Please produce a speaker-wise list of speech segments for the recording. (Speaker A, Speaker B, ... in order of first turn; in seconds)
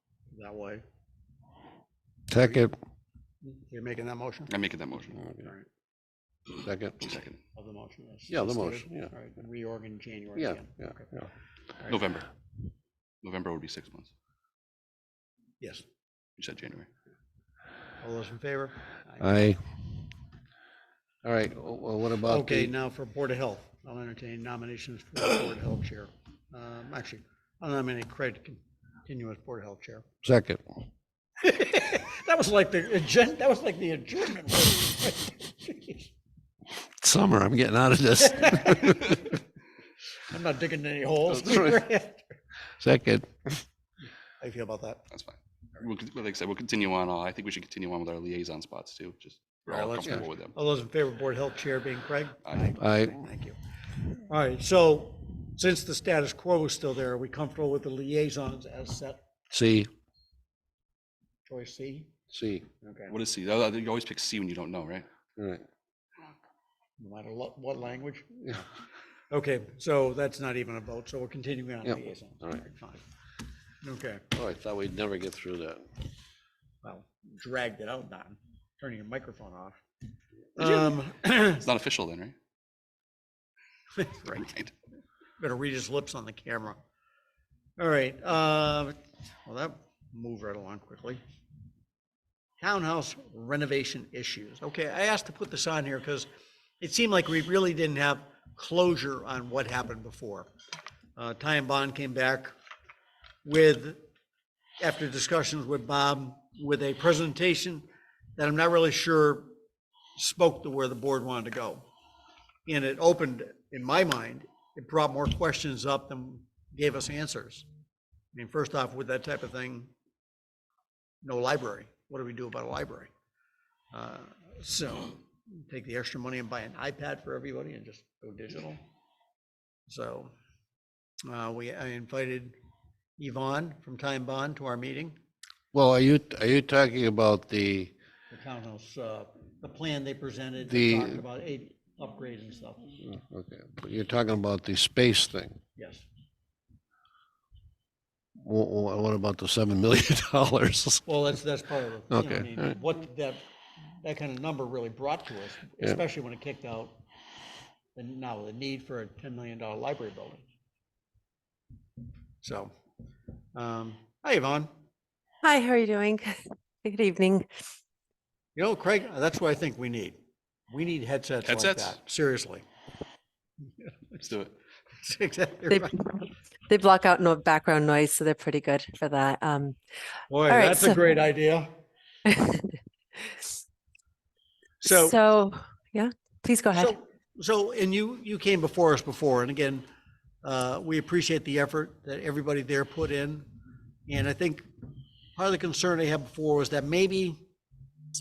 Speaker A: 0.3-0.8, 2.4-2.7, 3.4-4.5, 5.3-5.7, 7.5-12.0, 18.0-19.5, 22.2-30.1, 31.4-36.1, 38.4-39.2, 40.3-42.4, 44.4-45.0, 49.7-59.2, 61.5-62.1, 62.8-63.1, 67.0-68.7, 69.3-73.0, 73.8-74.3, 76.8-79.8, 80.6-81.7, 84.0-84.6, 85.4-86.8, 87.8-91.2, 92.6-96.3, 96.8-100.5, 101.2-102.5, 103.5-104.0, 104.8-107.8, 108.4-109.5, 110.2-111.8, 112.7-117.7, 118.3-119.9, 121.2-123.1, 123.9-128.8, 129.9-130.3, 131.3-132.5, 133.2-135.2, 138.3-143.0, 145.8-146.1, 151.1-153.4, 154.0-157.0, 158.0-160.5, 162.4-162.7, 163.6-164.7, 168.6-170.2, 170.7-172.6, 173.8-174.2, 175.0-176.1, 180.3-181.7, 184.8-185.2, 186.8-189.8, 190.4-193.5, 194.1-194.7, 195.4-197.4
Speaker B: 2.3-2.8, 6.6-7.1, 8.3-9.1, 10.4-10.7, 19.2-19.6, 21.2-22.7, 30.2-30.6, 36.7-39.3, 41.4-41.7, 42.8-43.3, 52.8-53.2, 59.5-59.9, 62.3-62.6, 65.4-65.7, 71.9-72.6, 74.3-75.9, 135.7-137.9, 140.7-141.2, 143.1-145.6, 148.4-151.1, 152.1-152.6
Speaker C: 4.5-5.3, 7.0-7.4, 11.9-12.3, 13.2-14.1, 16.4-16.9, 45.1-50.5, 63.1-65.1, 80.6-81.0, 81.5-82.3, 84.3-84.7, 171.4-172.0, 174.2-174.6
Speaker D: 165.4-167.5, 176.7-179.8, 180.5-181.0, 182.3-182.8, 184.8-186.9